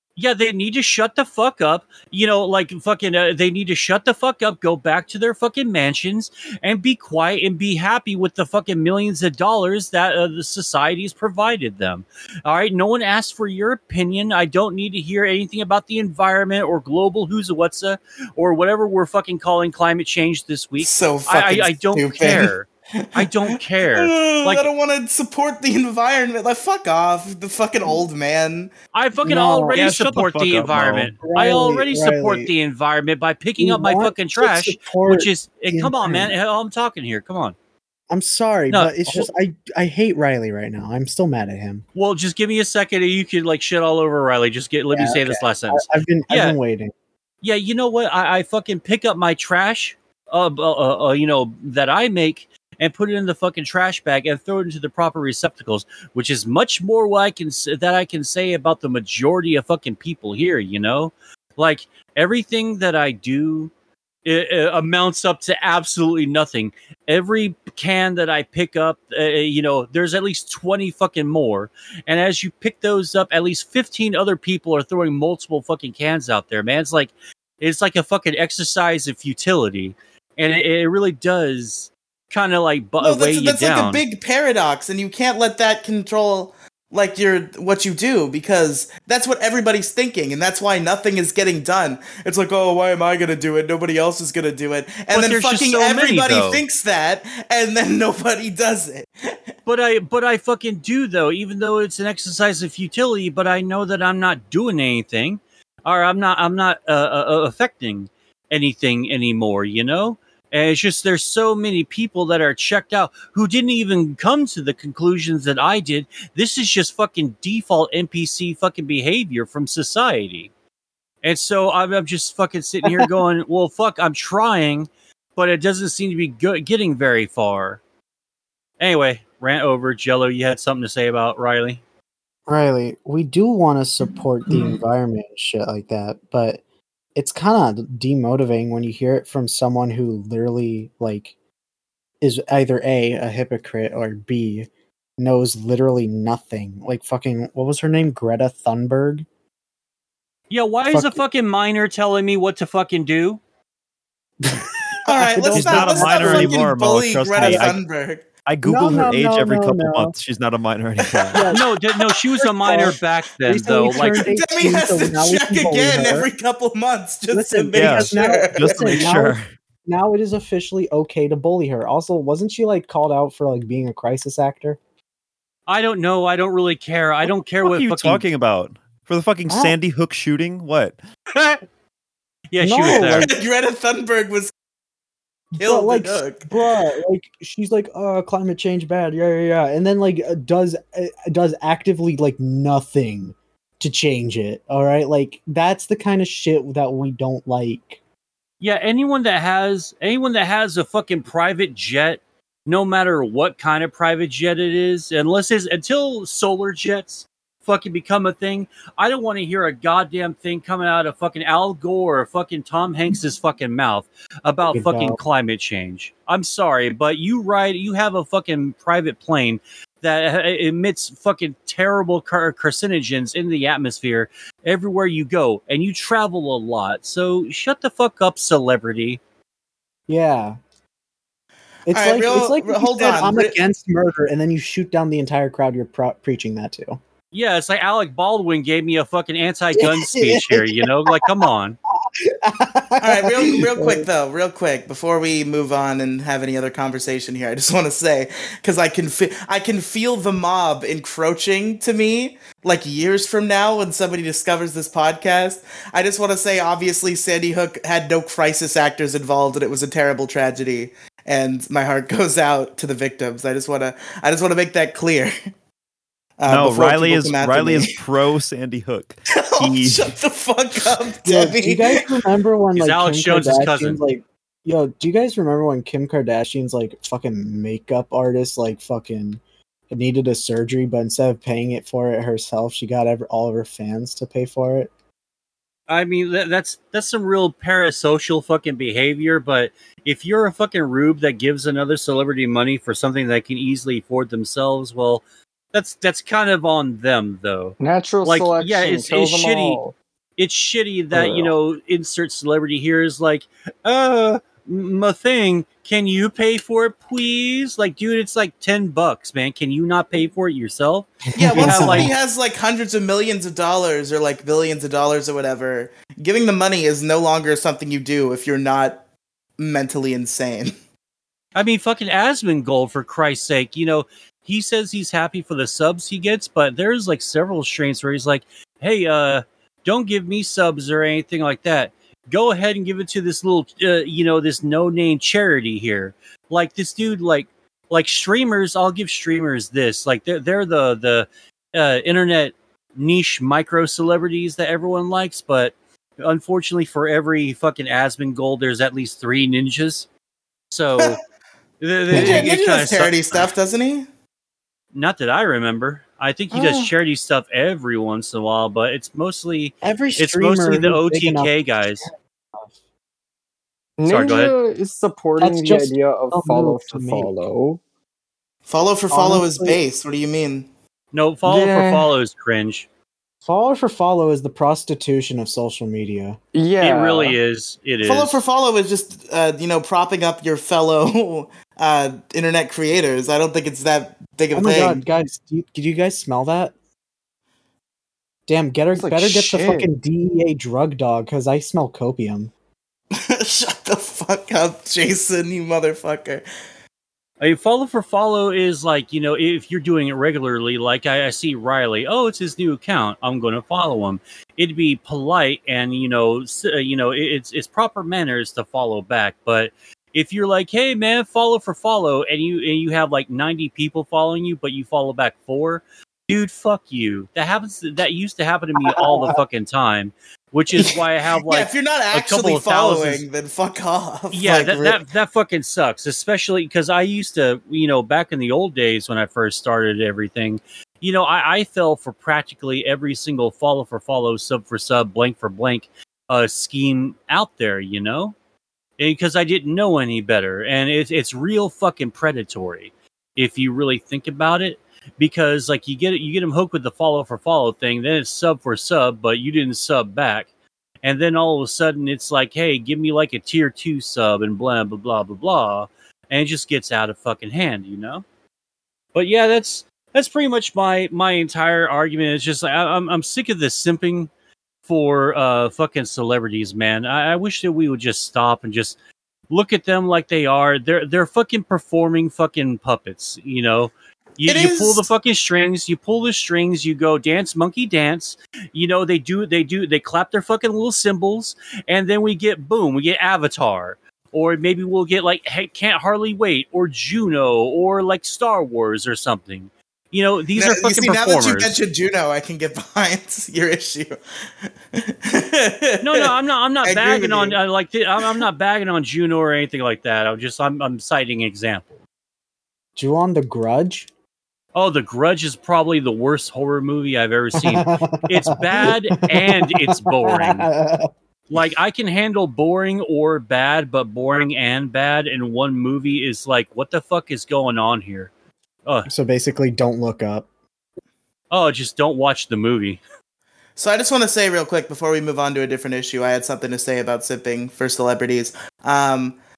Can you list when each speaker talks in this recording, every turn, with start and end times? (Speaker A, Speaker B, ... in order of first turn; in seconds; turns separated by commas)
Speaker A: 0.2-24.7, Speaker B: 20.8-23.3, Speaker B: 23.9-28.7, Speaker A: 28.9-37.5, Speaker C: 29.2-29.9, Speaker D: 29.7-31.2, Speaker C: 31.2-32.5, Speaker C: 33.6-36.3, Speaker C: 38.1-41.8, Speaker A: 38.7-39.3, Speaker A: 41.9-46.6, Speaker C: 44.9-46.9, Speaker A: 47.4-63.7, Speaker A: 64.2-84.0, Speaker B: 83.0-99.1, Speaker A: 95.1-96.6, Speaker A: 99.7-120.5, Speaker A: 121.2-127.8, Speaker A: 128.8-131.8, Speaker C: 132.5-136.6, Speaker C: 137.2-141.3, Speaker C: 142.2-149.2, Speaker A: 150.5-153.4, Speaker C: 150.9-151.2, Speaker C: 154.4-156.6, Speaker B: 155.1-158.3, Speaker D: 155.5-157.8, Speaker C: 157.4-157.7, Speaker D: 158.4-161.5, Speaker C: 158.6-160.1, Speaker B: 161.1-161.4, Speaker C: 161.3-161.6, Speaker A: 161.5-164.2, Speaker C: 162.6-166.3, Speaker B: 163.9-169.1, Speaker C: 167.3-174.8, Speaker D: 167.7-169.4, Speaker A: 175.7-178.2, Speaker D: 177.6-181.0, Speaker C: 179.5-179.8, Speaker A: 181.3-181.6, Speaker A: 182.5-183.3, Speaker C: 182.6-183.3, Speaker B: 182.8-184.5, Speaker C: 185.5-198.0, Speaker B: 185.6-186.5, Speaker A: 198.6-229.2, Speaker C: 214.7-215.2, Speaker C: 230.1-230.6, Speaker C: 231.9-237.0, Speaker B: 231.9-233.6, Speaker A: 237.3-241.8, Speaker C: 239.7-241.3, Speaker C: 242.1-244.1, Speaker B: 243.0-265.3, Speaker B: 266.4-268.0, Speaker D: 266.5-270.1, Speaker B: 269.3-272.1, Speaker C: 271.2-284.9, Speaker A: 272.7-274.0, Speaker A: 285.9-299.8, Speaker E: 297.8-299.9, Speaker A: 300.4-312.1, Speaker E: 301.1-301.5, Speaker C: 311.3-312.1, Speaker B: 311.3-319.0, Speaker B: 319.6-320.7, Speaker A: 321.6-350.1, Speaker A: 350.7-351.2, Speaker A: 351.8-353.5, Speaker B: 352.1-354.1, Speaker C: 352.1-352.4, Speaker A: 354.9-362.1, Speaker E: 356.5-356.9, Speaker C: 359.8-361.5, Speaker E: 364.0-367.8, Speaker A: 364.1-364.5, Speaker C: 365.4-367.5, Speaker B: 368.6-370.7, Speaker C: 369.1-369.8, Speaker A: 371.1-372.9, Speaker E: 371.4-372.1, Speaker C: 373.4-376.4, Speaker E: 376.5-377.4, Speaker A: 376.8-378.4, Speaker B: 378.0-385.0, Speaker C: 384.5-386.7, Speaker C: 388.5-392.5, Speaker E: 388.9-389.9, Speaker B: 393.1-396.4, Speaker A: 397.4-423.2, Speaker B: 421.5-425.0, Speaker A: 424.3-438.3, Speaker A: 439.0-450.5, Speaker A: 451.0-458.2, Speaker A: 459.1-464.3, Speaker A: 464.9-468.9, Speaker A: 469.5-491.8, Speaker B: 474.4-475.1, Speaker B: 490.6-494.2, Speaker B: 494.9-496.3, Speaker A: 496.0-502.0, Speaker B: 496.8-497.6, Speaker C: 502.9-504.1, Speaker A: 504.7-510.7, Speaker C: 507.5-511.1, Speaker A: 511.5-518.3, Speaker C: 519.1-520.5, Speaker A: 521.5-523.0, Speaker B: 523.8-529.4